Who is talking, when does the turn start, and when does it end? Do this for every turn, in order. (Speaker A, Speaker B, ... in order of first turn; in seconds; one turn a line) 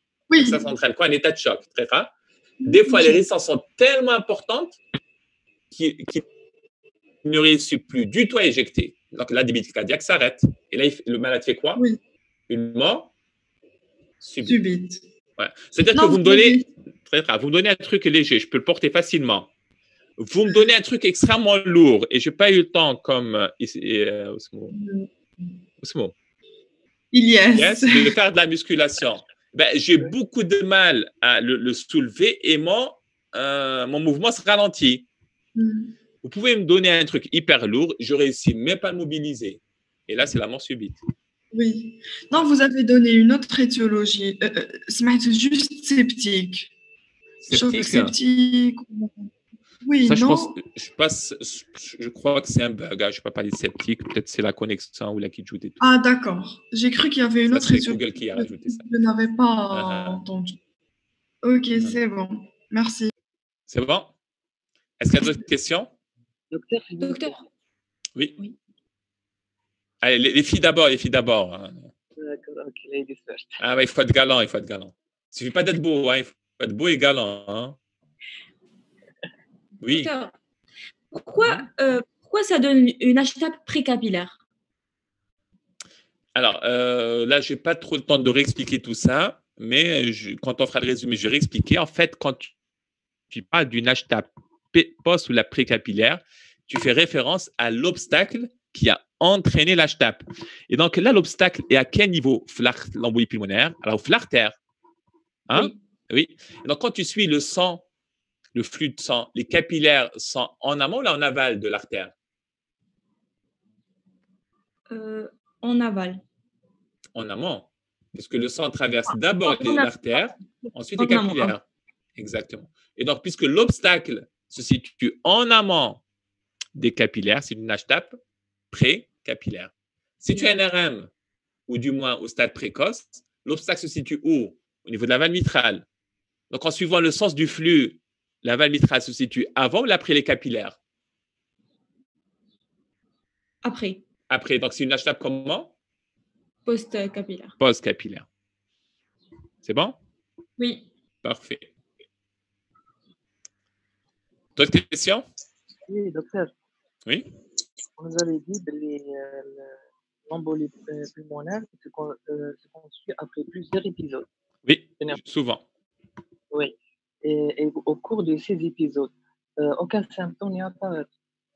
Speaker A: 0.3-0.7
Speaker B: 0.4-2.1
Speaker A: 2.6-3.2
Speaker B: 2.6-4.8
Speaker B: 5.7-6.2
Speaker B: 7.2-11.8
Speaker B: 12.5-13.1
Speaker B: 14.2-14.6
Speaker A: 14.4-15.0
Speaker B: 15.4-19.5
Speaker A: 15.9-16.6
Speaker B: 20.2-24.8
Speaker A: 24.7-25.1
Speaker B: 25.8-26.1
Speaker A: 27.1-28.1
Speaker B: 27.5-35.0
Speaker A: 35.5-35.9
Speaker B: 36.2-41.0
Speaker A: 41.5-46.7
Speaker B: 47.4-48.1
Speaker A: 47.5-49.3
Speaker A: 49.8-50.5
Speaker B: 50.0-55.8
Speaker A: 55.8-60.6
Speaker B: 57.5-58.8
Speaker B: 59.7-60.2
Speaker A: 61.4-63.1
Speaker B: 63.7-64.1
Speaker B: 65.0-65.9
Speaker C: 66.5-67.4
Speaker D: 67.0-67.4
Speaker B: 70.0-71.9
Speaker C: 72.2-73.6
Speaker B: 73.6-77.8
Speaker B: 79.8-80.1
Speaker D: 79.9-80.3
Speaker D: 81.1-84.4
Speaker B: 81.4-81.7
Speaker B: 86.3-92.5
Speaker B: 93.3-104.6
Speaker B: 105.5-107.8
Speaker B: 108.5-112.1
Speaker D: 114.9-116.2
Speaker B: 117.1-121.6
Speaker D: 119.4-120.2
Speaker D: 121.0-121.5
Speaker B: 122.2-126.0
Speaker B: 126.8-128.2
Speaker B: 128.7-131.1
Speaker B: 131.7-135.8
Speaker B: 136.5-140.8
Speaker D: 143.6-144.0
Speaker B: 144.3-145.7
Speaker D: 146.6-147.5
Speaker B: 147.6-148.2
Speaker B: 149.6-149.9
Speaker D: 150.6-150.8
Speaker B: 151.2-151.7
Speaker B: 154.6-155.2
Speaker C: 155.8-156.5
Speaker C: 158.0-159.7
Speaker C: 160.3-164.2
Speaker B: 164.6-165.6
Speaker C: 166.5-171.1